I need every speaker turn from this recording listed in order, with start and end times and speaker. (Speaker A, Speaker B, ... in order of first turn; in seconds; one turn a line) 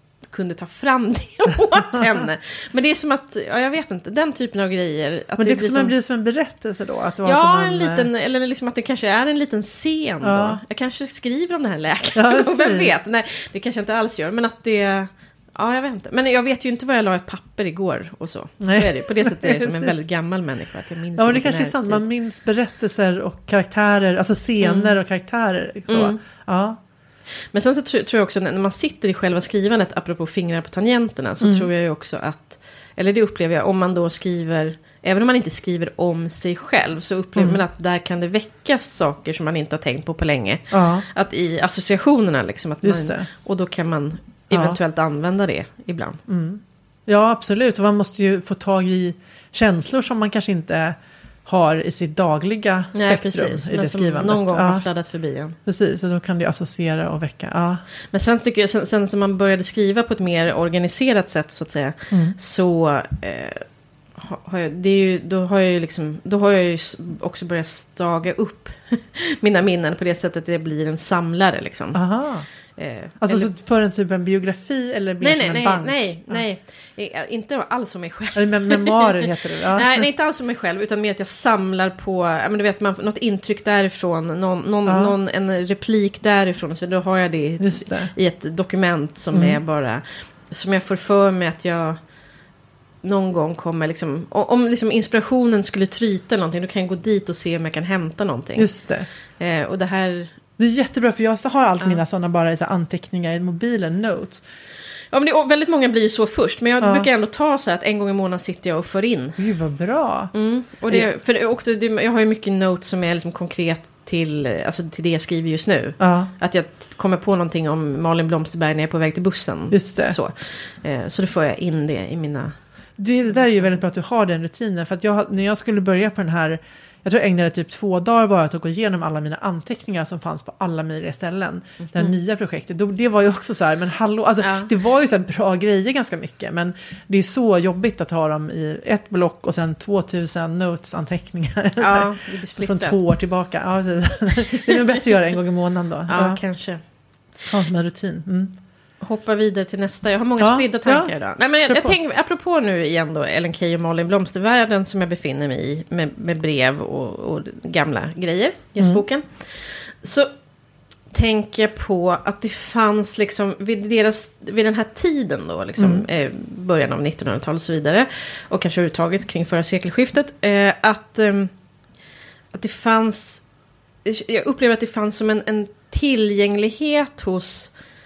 Speaker A: 0.2-5.9
Speaker B: 5.4-8.1
Speaker A: 7.2-22.1
Speaker B: 10.2-10.6
Speaker B: 12.2-12.9
Speaker B: 18.6-19.9
Speaker B: 21.2-26.8
Speaker A: 24.6-25.0
Speaker A: 25.9-26.2
Speaker A: 27.5-46.2
Speaker B: 31.4-31.7
Speaker B: 40.7-41.0
Speaker B: 42.8-43.3
Speaker B: 44.5-44.8
Speaker B: 46.3-54.9
Speaker A: 52.9-55.6
Speaker B: 55.7-57.8
Speaker A: 58.1-63.6
Speaker B: 62.1-62.4
Speaker A: 64.2-72.0
Speaker B: 72.0-72.5
Speaker A: 72.8-73.5
Speaker B: 73.2-76.4
Speaker A: 75.2-92.0
Speaker B: 78.4-80.1
Speaker B: 84.9-85.2
Speaker B: 87.6-88.1
Speaker B: 89.3-89.6
Speaker A: 93.0-98.7
Speaker B: 98.6-99.1
Speaker A: 99.4-100.4
Speaker B: 100.6-104.4
Speaker A: 105.1-109.4
Speaker B: 106.8-107.1
Speaker B: 109.4-110.3
Speaker A: 110.3-122.5
Speaker B: 116.0-116.3
Speaker B: 119.7-120.2
Speaker B: 123.0-146.4
Speaker A: 131.8-132.1
Speaker A: 134.4-134.7
Speaker A: 141.8-143.0
Speaker A: 144.6-144.9
Speaker A: 146.1-146.8
Speaker B: 147.5-148.5
Speaker A: 149.0-160.3
Speaker B: 150.4-151.9
Speaker A: 161.1-171.5
Speaker B: 165.8-166.0
Speaker A: 172.5-173.5
Speaker A: 174.1-177.7